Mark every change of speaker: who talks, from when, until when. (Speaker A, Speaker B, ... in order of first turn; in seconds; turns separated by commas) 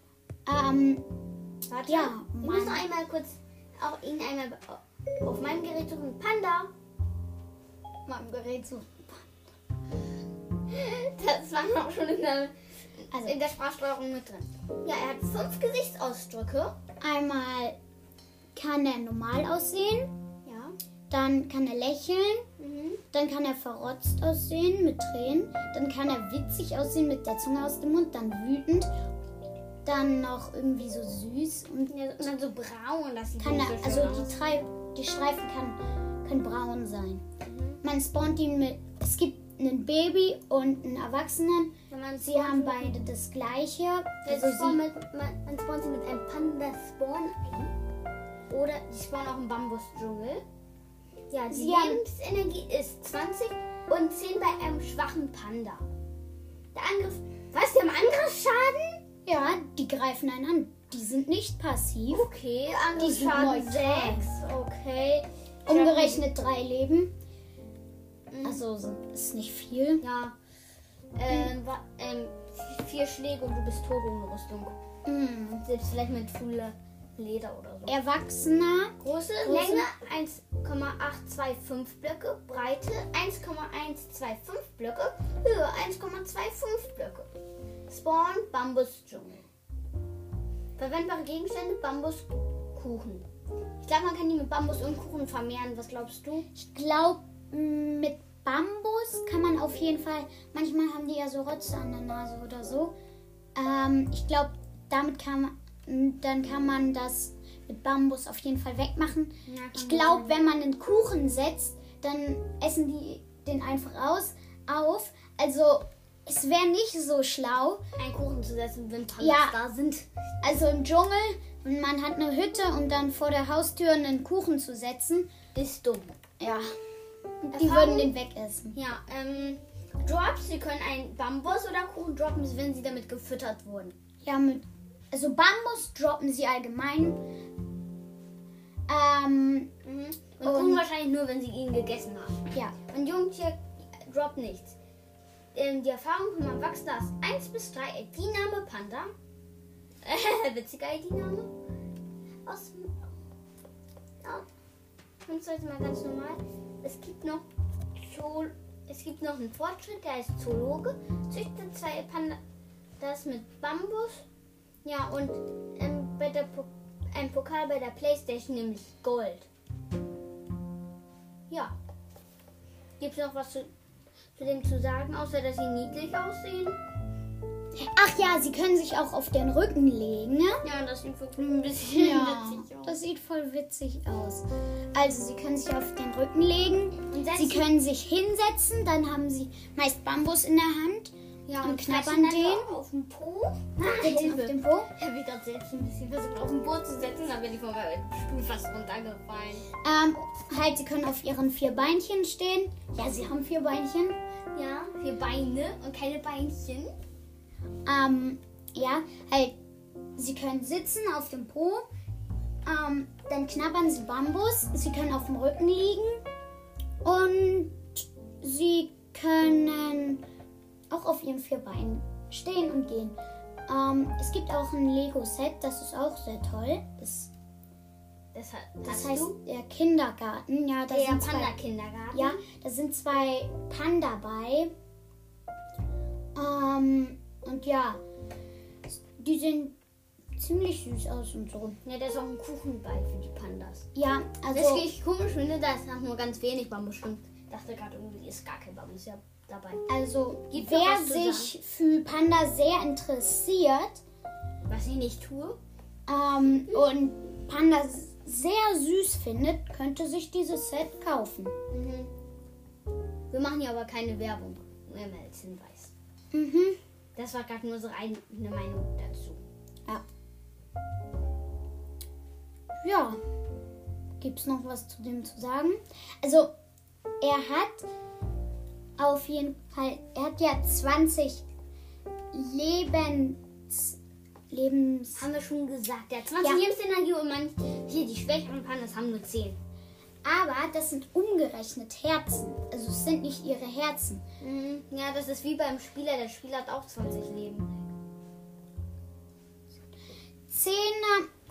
Speaker A: 0.5-1.0, Speaker B: 1.7-6.7, Speaker A: 1.9-2.8, Speaker A: 8.1-9.2, Speaker B: 10.7-12.5, Speaker B: 13.1-16.8, Speaker A: 17.0-17.8, Speaker A: 18.5-20.1, Speaker B: 20.5-20.8, Speaker A: 21.1-22.4, Speaker B: 22.6-23.0, Speaker A: 23.1-28.9, Speaker A: 29.9-31.9, Speaker B: 31.9-34.4, Speaker A: 33.4-37.2, Speaker B: 37.4-37.8, Speaker A: 37.8-44.8, Speaker B: 41.9-42.9, Speaker B: 44.2-47.7, Speaker B: 48.5-50.4, Speaker B: 51.3-55.8, Speaker A: 51.5-52.0, Speaker B: 56.7-59.0, Speaker A: 59.2-62.2, Speaker B: 62.1-66.3, Speaker A: 62.9-64.2, Speaker A: 65.7-67.1, Speaker B: 68.3-68.6, Speaker A: 68.4-70.0, Speaker B: 70.0-70.3, Speaker B: 71.2-74.8, Speaker A: 75.0-75.7, Speaker B: 75.6-78.0, Speaker A: 77.9-79.9, Speaker B: 79.0-87.3, Speaker B: 87.9-89.4, Speaker B: 90.8-93.3, Speaker B: 93.8-96.5, Speaker A: 96.5-102.9, Speaker A: 103.5-117.8, Speaker B: 109.5-110.3, Speaker B: 118.0-120.0, Speaker A: 119.2-119.6, Speaker A: 120.4-125.3, Speaker B: 125.5-126.2, Speaker A: 126.4-126.7, Speaker A: 127.5-128.8, Speaker B: 127.5-128.1, Speaker B: 128.7-133.9, Speaker A: 134.2-137.2, Speaker A: 138.9-139.7, Speaker B: 139.8-144.8, Speaker A: 140.4-140.8, Speaker B: 145.5-149.1, Speaker B: 150.0-151.5, Speaker B: 152.5-153.0, Speaker B: 155.3-162.4, Speaker B: 163.0-164.2, Speaker B: 164.8-169.5, Speaker B: 173.0-173.7, Speaker B: 174.4-176.8, Speaker A: 177.8-180.6, Speaker B: 180.6-183.0, Speaker A: 181.7-192.8, Speaker B: 187.1-187.7, Speaker B: 191.5-199.7, Speaker A: 193.8-194.9, Speaker A: 199.8-204.2, Speaker B: 204.5-206.9, Speaker A: 207.9-209.6, Speaker A: 210.2-211.9, Speaker A: 212.7-216.2, Speaker A: 217.0-220.2, Speaker A: 220.9-227.3, Speaker B: 228.3-229.4, Speaker A: 228.8-231.6, Speaker B: 230.9-232.4, Speaker A: 232.1-234.7, Speaker A: 236.3-238.0, Speaker A: 239.2-239.8, Speaker A: 240.4-241.8, Speaker B: 241.8-243.8, Speaker A: 243.9-244.9, Speaker B: 244.5-249.8, Speaker A: 249.9-254.0, Speaker B: 250.5-251.5, Speaker B: 254.7-255.6, Speaker A: 256.1-261.5, Speaker B: 261.7-262.1, Speaker B: 263.3-265.9, Speaker A: 266.3-266.8, Speaker B: 267.1-269.4, Speaker A: 272.8-273.2, Speaker A: 274.2-276.5, Speaker A: 277.2-277.9, Speaker A: 279.0-281.4, Speaker A: 282.3-284.0, Speaker A: 284.5-285.3, Speaker B: 285.1-289.6, Speaker A: 290.2-294.2, Speaker B: 294.4-297.7, Speaker A: 300.5-301.3